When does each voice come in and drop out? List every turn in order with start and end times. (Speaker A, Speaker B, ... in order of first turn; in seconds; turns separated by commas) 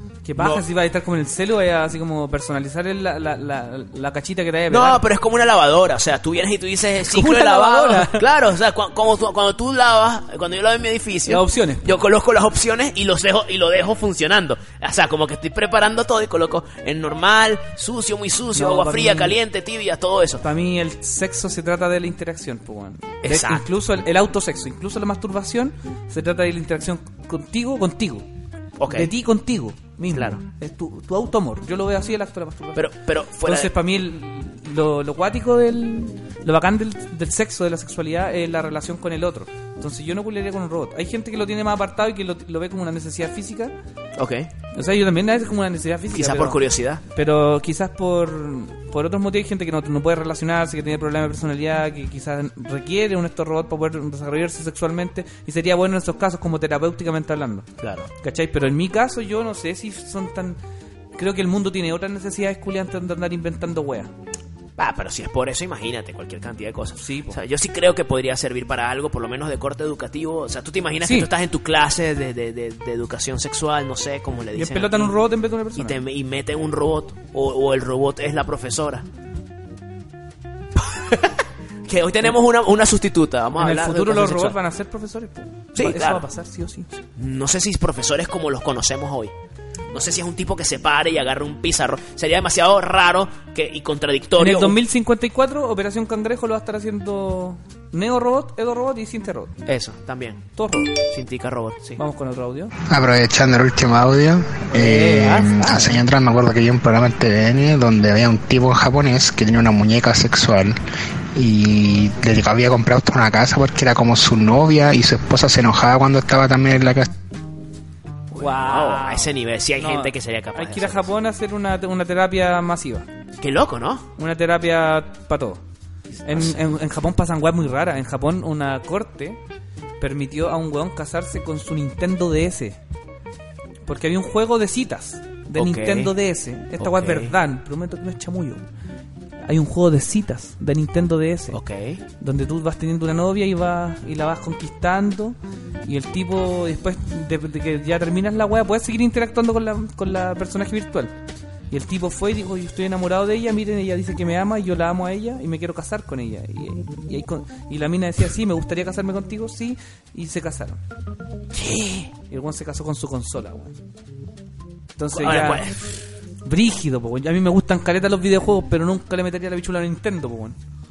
Speaker A: 0.2-5.0, Speaker B: 0.4-0.6, Speaker B: 4.7-20.4, Speaker A: 7.1-8.3, Speaker A: 11.3-12.0, Speaker A: 18.6-19.4, Speaker A: 20.4-28.3, Speaker B: 23.2-23.6, Speaker B: 28.8-29.1, Speaker A: 28.9-32.9, Speaker B: 30.1-30.4, Speaker B: 32.8-33.7, Speaker A: 33.4-43.7, Speaker B: 44.2-44.5, Speaker A: 44.7-57.7, Speaker B: 46.1-47.0, Speaker B: 57.8-58.1, Speaker A: 58.2-60.6, Speaker A: 61.2-64.1, Speaker B: 64.8-75.2, Speaker A: 67.0-67.4, Speaker A: 71.0-71.3, Speaker A: 74.5-76.0, Speaker B: 75.8-79.0, Speaker B: 80.8-84.6, Speaker A: 83.6-86.9, Speaker B: 85.8-86.2, Speaker B: 87.2-89.3, Speaker B: 89.9-94.8, Speaker A: 94.4-99.5, Speaker B: 99.7-100.5, Speaker A: 100.6-101.0, Speaker B: 101.0-102.0, Speaker A: 102.0-102.7, Speaker C: 102.9-110.8, Speaker A: 104.7-106.0, Speaker C: 111.3-117.1, Speaker B: 118.3-121.1, Speaker A: 118.4-123.1, Speaker B: 123.4-124.1, Speaker A: 124.2-125.6, Speaker B: 126.1-126.6, Speaker A: 126.2-129.4, Speaker A: 130.0-132.8, Speaker A: 133.9-138.6, Speaker B: 135.6-136.1, Speaker B: 136.8-137.3, Speaker A: 139.4-141.6, Speaker B: 141.5-142.0, Speaker A: 142.2-151.1, Speaker A: 151.7-160.8, Speaker B: 161.5-162.1, Speaker A: 162.3-163.7, Speaker A: 165.0-165.6, Speaker B: 165.1-165.9, Speaker A: 166.4-170.6